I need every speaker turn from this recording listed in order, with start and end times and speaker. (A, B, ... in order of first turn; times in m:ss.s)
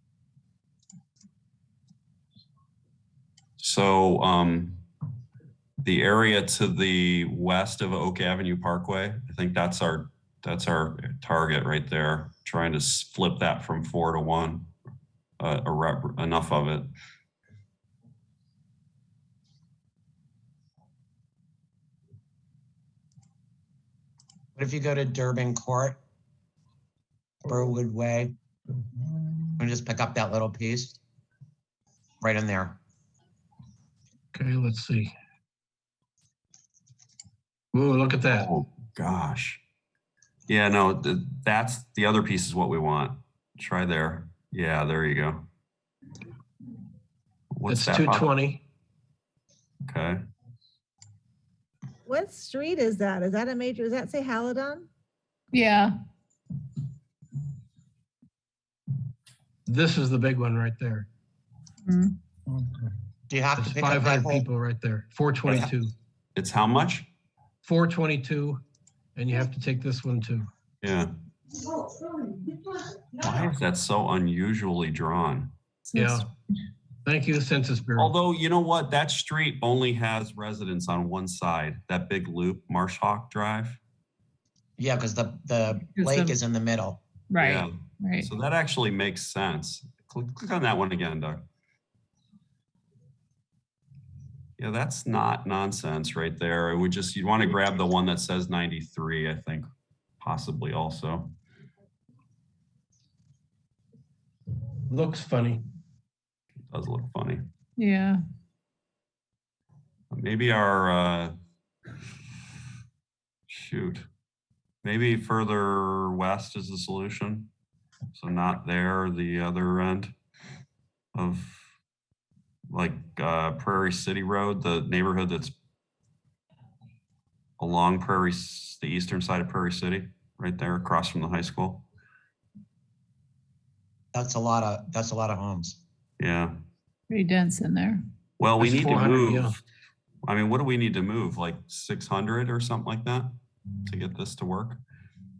0:03.6-0:04.8 A
0:05.8-0:14.7 A
0:15.4-0:16.9 A
0:24.6-0:26.0 B
0:27.4-0:28.3 B
0:29.6-0:31.0 B
0:32.2-0:32.8 B
0:34.3-0:35.1 C
0:37.7-0:38.5 C
0:38.3-0:39.6 A
0:40.5-0:45.4 A
0:47.5-0:48.3 A
0:47.7-0:48.6 C
0:49.9-0:50.2 A
0:52.1-0:54.9 D
0:55.5-0:55.9 E
0:59.6-1:01.1 C
1:01.8-1:02.1 E
1:03.3-1:04.4 B
1:03.6-1:05.9 C
1:06.3-1:07.1 A
1:07.6-1:08.6 C
1:09.2-1:10.5 C
1:10.8-1:11.1 A
1:13.1-1:15.5 A
1:15.9-1:16.3 E
1:15.9-1:16.3 C
1:17.0-1:18.1 C
1:18.0-1:23.8 A
1:24.8-1:27.0 B
1:25.9-1:26.3 E
1:27.3-1:28.3 E
1:27.4-1:31.4 A
1:34.6-1:39.7 A
1:40.2-1:41.3 A
1:44.9-1:45.6 C
1:46.7-1:47.5 A
1:47.8-1:48.2 E
1:50.1-1:51.3 A
1:53.5-1:54.1 A
1:54.8-1:57.5 A
1:58.1-2:00.1 A
2:01.1-2:01.6 A
2:02.7-2:05.6 A
2:07.6-2:11.8 A
2:14.1-2:15.8 B
2:16.2-2:16.5 A
2:17.1-2:18.0 E
2:18.4-2:19.5 A
2:18.6-2:19.6 C
2:20.2-2:23.3 A
2:23.8-2:24.8 A